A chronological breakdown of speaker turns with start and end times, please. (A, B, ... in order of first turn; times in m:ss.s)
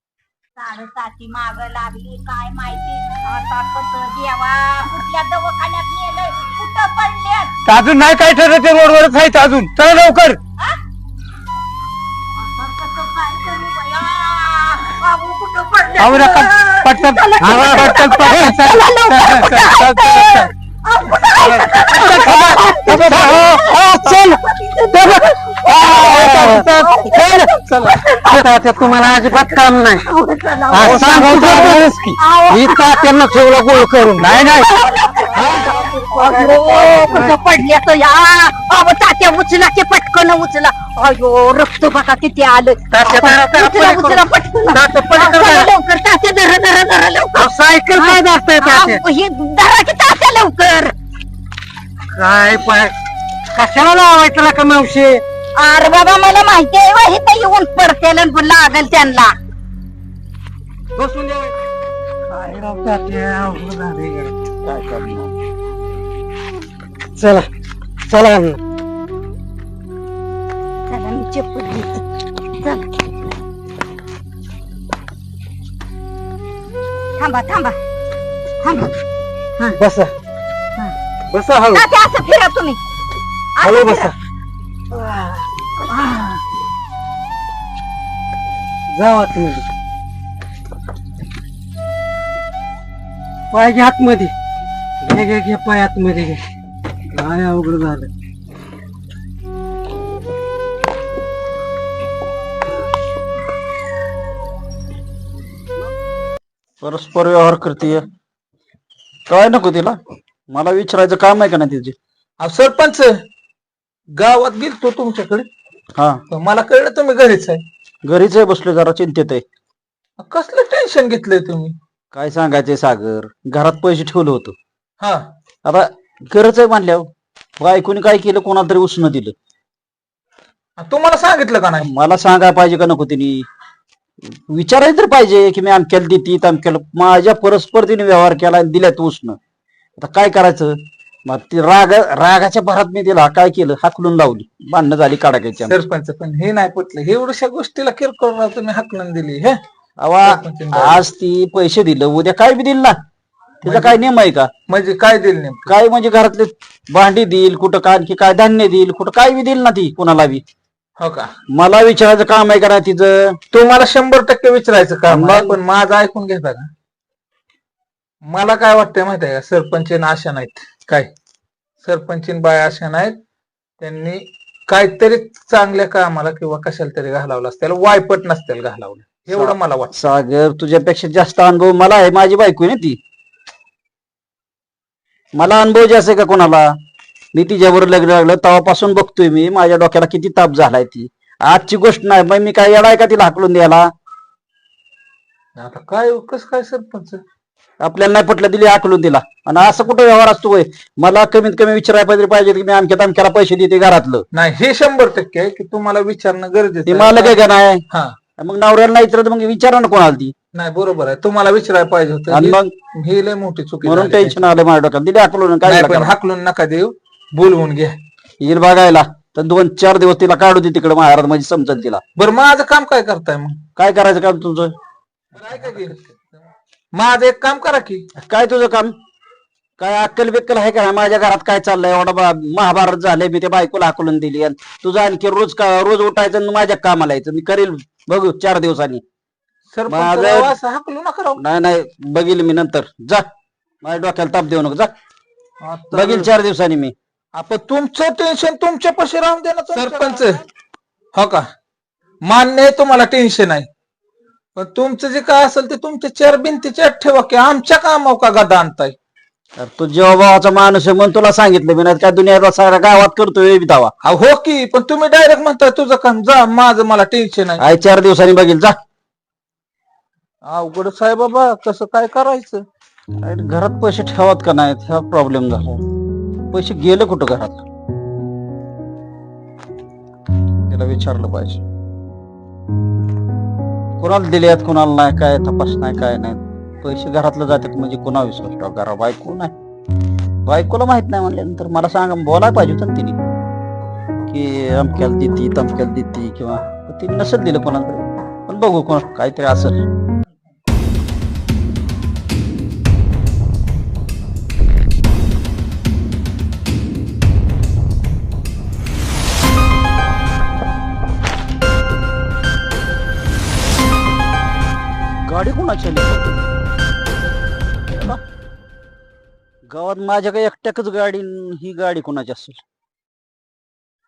0:00.6-0:07.5 A
0:07.6-0:10.4 B
0:12.4-0:33.2 A
0:16.0-0:20.4 B
0:17.4-0:18.6 C
0:22.2-0:24.4 C
0:24.9-0:25.3 C
0:25.9-0:27.5 C
0:26.2-0:26.5 B
0:28.2-0:30.0 C
0:30.7-0:34.7 C
0:34.2-0:50.9 A
0:35.4-0:35.8 C
0:36.3-0:37.3 C
0:42.9-0:45.7 C
0:47.3-0:49.0 C
0:52.1-0:52.9 C
0:53.5-0:55.2 C
0:55.6-0:59.3 A
1:01.0-1:01.5 C
1:02.3-1:04.3 C
1:04.6-1:05.3 D
1:07.2-1:07.5 C
1:08.1-1:08.6 C
1:10.9-1:12.0 A
1:12.6-1:12.8 A
1:17.2-1:17.8 A
1:18.6-1:18.9 A
1:19.7-1:20.1 C
1:21.3-1:21.8 C
1:21.6-1:22.8 A
1:23.6-1:24.1 A
1:23.6-1:24.1 C
1:25.8-1:26.4 A
1:28.9-1:29.7 C
1:33.5-1:34.3 C
1:35.0-1:36.4 C
1:37.1-1:38.1 C
1:46.8-1:48.1 D
1:49.3-1:50.0 D
1:50.5-1:52.0 D
1:52.4-1:53.1 E
1:54.2-1:55.5 E
1:56.0-1:56.2 D
1:56.3-1:57.6 E
1:58.0-1:59.4 D
2:00.2-2:01.7 E
2:02.1-2:04.6 D
2:05.6-2:09.3 D
2:10.8-2:11.9 E
2:11.8-2:13.4 D
2:14.3-2:19.4 D
2:20.0-2:25.8 D
2:25.6-2:29.6 E
2:30.0-2:33.0 D
2:30.2-2:31.1 E
2:33.6-2:34.5 D
2:33.6-2:34.0 E
2:34.7-2:35.7 E
2:35.7-2:40.4 D
2:41.0-2:41.3 E
2:41.5-2:43.4 D
2:43.5-2:46.7 E
2:45.1-2:45.6 D
2:48.2-2:51.1 E
2:51.8-2:53.1 E
2:53.8-2:59.9 E
2:59.3-3:03.0 D
3:05.4-3:06.7 D
3:07.3-3:13.9 D
3:15.6-3:17.2 E
3:17.8-3:24.2 D
3:24.3-3:27.4 E
3:26.9-3:27.8 D
3:28.4-3:30.3 D
3:30.5-3:34.4 E
3:32.3-3:32.7 D
3:33.8-3:36.2 D
3:35.6-3:37.9 E
3:38.4-3:42.0 D
3:42.2-3:43.6 E
3:43.8-3:44.7 D
3:45.3-3:46.4 E
3:47.0-3:48.0 E
3:48.2-3:48.9 D
3:49.8-3:59.0 D
3:59.7-4:01.4 E
3:59.9-4:00.5 D
4:01.4-4:03.3 D
4:03.8-4:04.9 D
4:05.6-4:06.3 E
4:05.9-4:06.9 D
4:07.4-4:10.4 E
4:11.2-4:11.4 E
4:12.3-4:13.7 E
4:14.6-4:18.9 E
4:19.6-4:23.9 D
4:24.0-4:27.6 E
4:27.6-4:28.8 D
4:30.4-4:32.6 E
4:33.2-4:35.8 D
4:36.5-4:37.6 D
4:40.7-4:41.6 D
4:44.0-4:49.5 D
4:50.4-4:53.2 D
4:54.3-4:59.8 D
5:15.2-5:16.4 D
5:17.9-5:18.2 D
5:19.7-5:22.6 D